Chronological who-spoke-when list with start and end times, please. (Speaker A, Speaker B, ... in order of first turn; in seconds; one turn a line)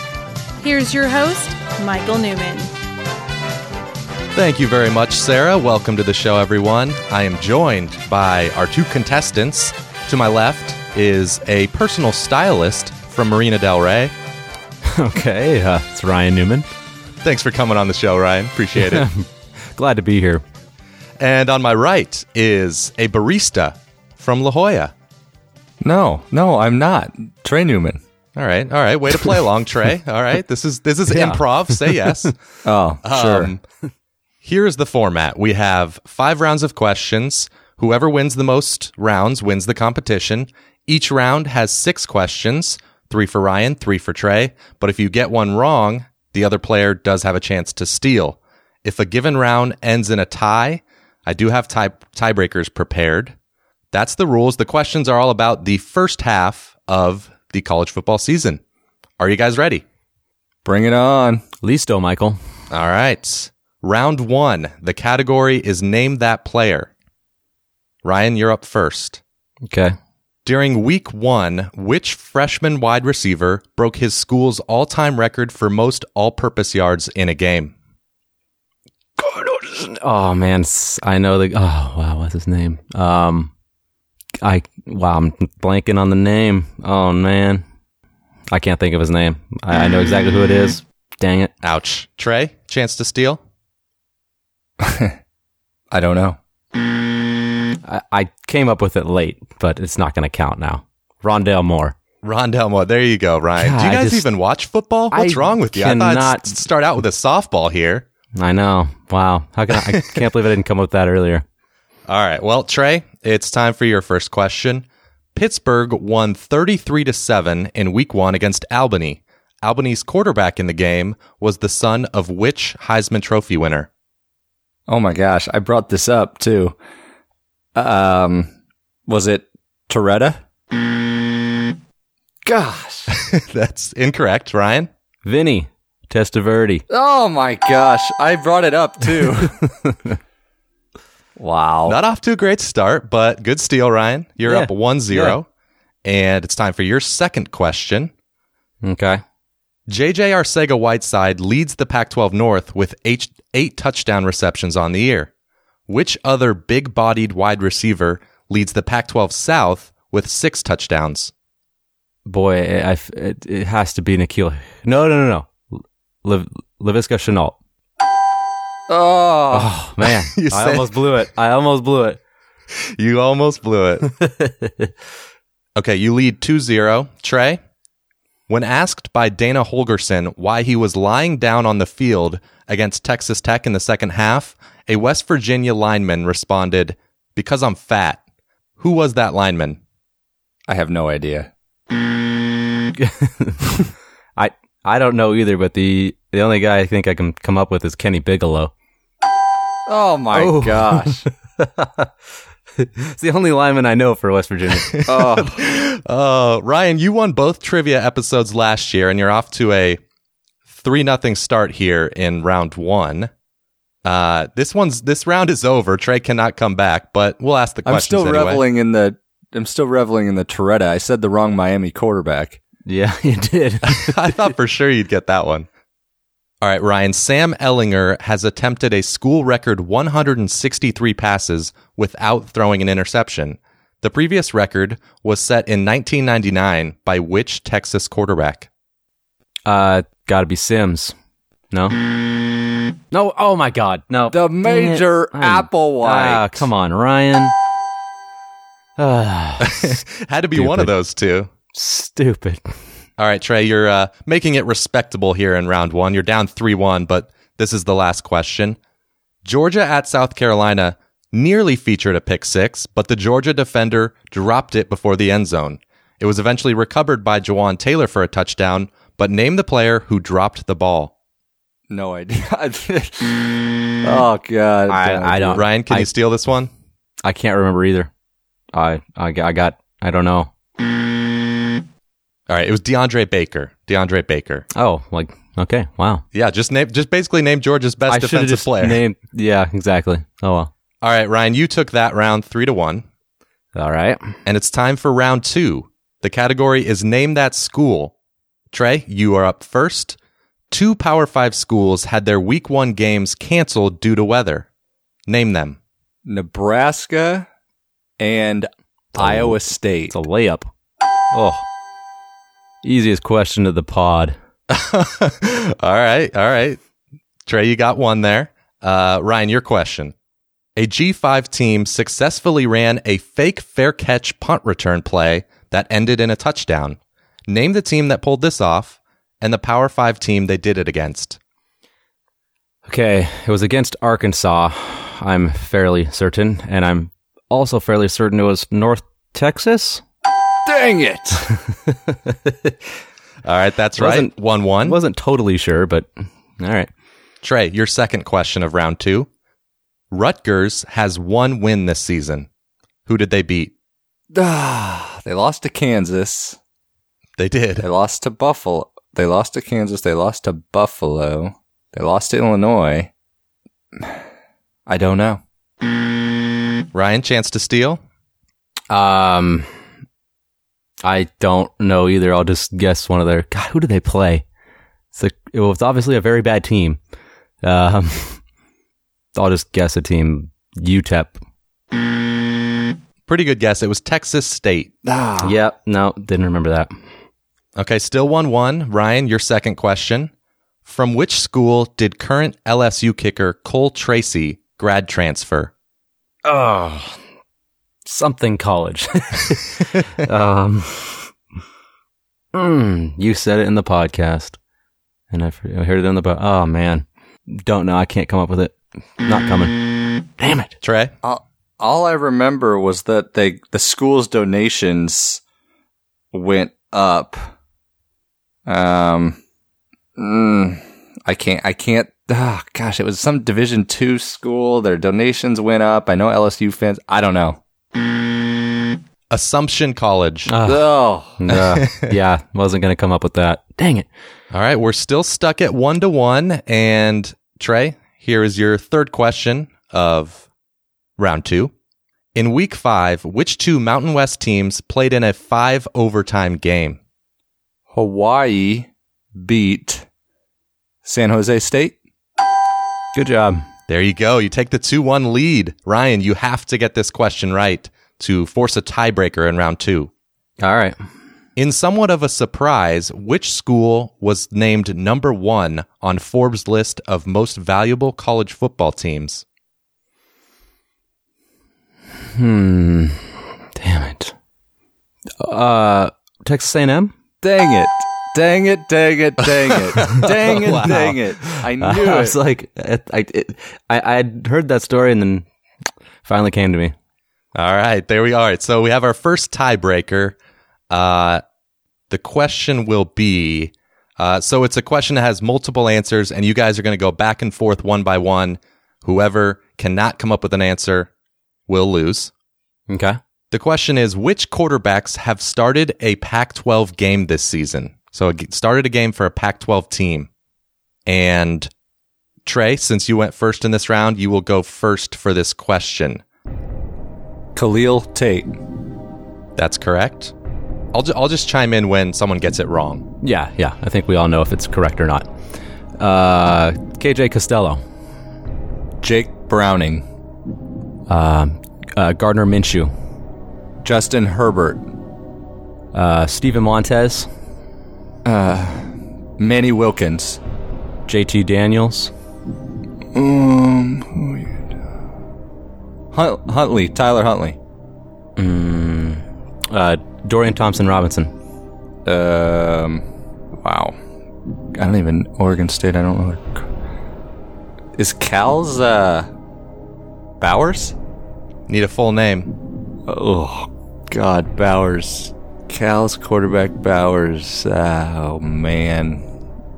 Speaker A: 0.6-2.7
Speaker B: 4.3-14.1
Speaker C: 14.8-16.7
Speaker B: 17.2-19.1
Speaker C: 18.8-20.4
Speaker B: 21.2-24.9
Speaker D: 25.8-28.0
Speaker B: 28.4-32.3
Speaker C: 31.1-32.3
Speaker D: 32.6-33.5
Speaker B: 33.0-33.6
Speaker B: 34.4-53.3
Speaker B: 53.9-58.6
Speaker B: 59.2-59.8
Speaker D: 60.6-61.4
Speaker C: 61.6-62.4
Speaker B: 62.7-66.9
Speaker B: 68.0-69.2
Speaker C: 69.7-70.0
Speaker B: 70.4-77.7
Speaker C: 79.2-83.5
Speaker C: 84.4-87.6
Speaker C: 88.5-91.5
Speaker B: 91.6-93.4
Speaker D: 94.8-95.2
Speaker D: 95.9-96.4
Speaker C: 97.8-101.9
Speaker B: 102.2-108.0
Speaker C: 103.6-104.3
Speaker C: 105.1-106.6
Speaker C: 108.3-111.4
Speaker B: 109.9-110.2
Speaker B: 112.1-123.9
Speaker D: 124.9-126.8
Speaker D: 127.7-128.5
Speaker D: 129.1-130.4
Speaker D: 132.4-133.1
Speaker B: 133.1-134.9
Speaker C: 135.2-136.8
Speaker D: 136.9-139.5
Speaker C: 139.4-140.2
Speaker D: 141.4-142.0
Speaker B: 141.8-145.4
Speaker C: 144.4-145.4
Speaker B: 146.0-148.1
Speaker C: 148.8-149.2
Speaker B: 149.9-155.3
Speaker B: 155.9-161.3
Speaker C: 162.2-167.6
Speaker D: 168.9-169.7
Speaker C: 169.5-172.2
Speaker B: 170.0-171.0
Speaker B: 172.8-174.1
Speaker C: 174.2-174.9
Speaker B: 175.8-177.6
Speaker B: 178.5-188.2
Speaker B: 188.8-189.8
Speaker D: 190.7-191.5
Speaker C: 192.9-198.7
Speaker D: 199.9-201.2
Speaker C: 200.3-202.1
Speaker C: 202.8-205.0
Speaker B: 204.8-210.0
Speaker D: 205.0-205.6
Speaker B: 210.7-213.3
Speaker B: 214.0-218.6
Speaker D: 217.8-222.6
Speaker C: 222.8-224.3
Speaker B: 223.9-225.7
Speaker B: 226.6-238.7
Speaker C: 239.7-241.1
Speaker C: 241.7-241.9
Speaker C: 243.1-247.5
Speaker D: 244.3-246.7
Speaker C: 249.0-250.0
Speaker B: 249.6-251.5
Speaker C: 250.5-250.9
Speaker C: 251.7-252.7
Speaker B: 253.2-258.8
Speaker B: 259.4-271.1
Speaker D: 271.9-275.6
Speaker C: 274.9-276.1
Speaker B: 275.5-276.7
Speaker C: 277.2-278.1
Speaker C: 278.7-280.5
Speaker B: 282.5-284.6
Speaker C: 284.7-286.2
Speaker B: 286.3-289.0
Speaker C: 288.1-290.7
Speaker B: 291.0-293.0
Speaker C: 293.7-294.3
Speaker B: 294.4-298.1
Speaker B: 298.7-300.2
Speaker B: 300.7-304.7
Speaker B: 305.3-305.8
Speaker D: 306.2-307.5
Speaker D: 308.2-310.1
Speaker C: 309.1-310.7
Speaker C: 311.3-311.6
Speaker C: 312.8-314.4
Speaker B: 314.7-316.8
Speaker B: 317.4-320.1
Speaker B: 320.8-331.4
Speaker C: 332.9-340.0
Speaker D: 340.6-341.5
Speaker C: 341.7-342.8
Speaker B: 343.4-345.0
Speaker C: 344.0-344.3
Speaker C: 344.8-346.9
Speaker B: 347.4-349.3
Speaker B: 350.1-352.5
Speaker B: 353.1-353.7
Speaker D: 354.3-356.6
Speaker B: 357.4-357.9
Speaker D: 357.8-363.1
Speaker D: 364.9-365.4
Speaker B: 366.9-368.0
Speaker C: 368.9-369.7
Speaker C: 371.0-374.4
Speaker C: 375.1-377.0
Speaker C: 377.6-378.4
Speaker C: 379.3-381.4
Speaker B: 383.3-384.9
Speaker D: 385.0-385.5
Speaker C: 385.4-386.9
Speaker B: 387.8-390.3
Speaker B: 390.8-395.7
Speaker C: 396.4-397.1
Speaker C: 398.1-401.3
Speaker C: 402.5-404.6
Speaker C: 405.3-409.8
Speaker C: 410.4-410.8
Speaker B: 410.8-411.1
Speaker D: 411.2-415.4
Speaker D: 416.3-417.5
Speaker D: 418.6-419.4
Speaker D: 420.2-427.6
Speaker B: 429.3-430.5
Speaker C: 430.5-430.8
Speaker D: 430.6-431.4
Speaker C: 431.4-434.1
Speaker B: 431.5-432.1
Speaker B: 434.5-440.4
Speaker B: 441.2-441.7
Speaker B: 442.3-447.0
Speaker D: 447.9-450.1
Speaker D: 451.0-451.9
Speaker C: 453.1-453.6
Speaker B: 453.9-460.1
Speaker C: 460.6-461.0
Speaker B: 461.6-469.4
Speaker C: 472.2-474.3
Speaker C: 475.4-477.1
Speaker D: 477.4-482.4
Speaker B: 479.8-481.1
Speaker C: 480.8-485.4
Speaker C: 486.2-486.9
Speaker B: 487.5-490.3
Speaker B: 490.9-491.4
Speaker B: 492.1-501.1
Speaker B: 501.7-502.3
Speaker C: 502.9-503.2
Speaker B: 503.5-510.3
Speaker B: 511.1-511.7
Speaker B: 512.4-516.2
Speaker D: 517.5-518.5
Speaker B: 519.6-520.3
Speaker B: 520.9-523.0
Speaker C: 523.2-525.3
Speaker C: 526.0-527.8
Speaker D: 529.0-530.0
Speaker C: 531.1-532.9
Speaker D: 533.8-534.8
Speaker C: 535.9-537.3
Speaker D: 538.2-540.4
Speaker C: 541.1-542.1
Speaker D: 543.1-544.6
Speaker D: 546.1-547.6
Speaker C: 548.4-551.3
Speaker D: 552.0-553.0
Speaker D: 553.6-554.0
Speaker D: 554.7-556.6
Speaker D: 558.0-559.3
Speaker D: 560.4-561.0
Speaker B: 561.7-562.5
Speaker D: 563.1-569.2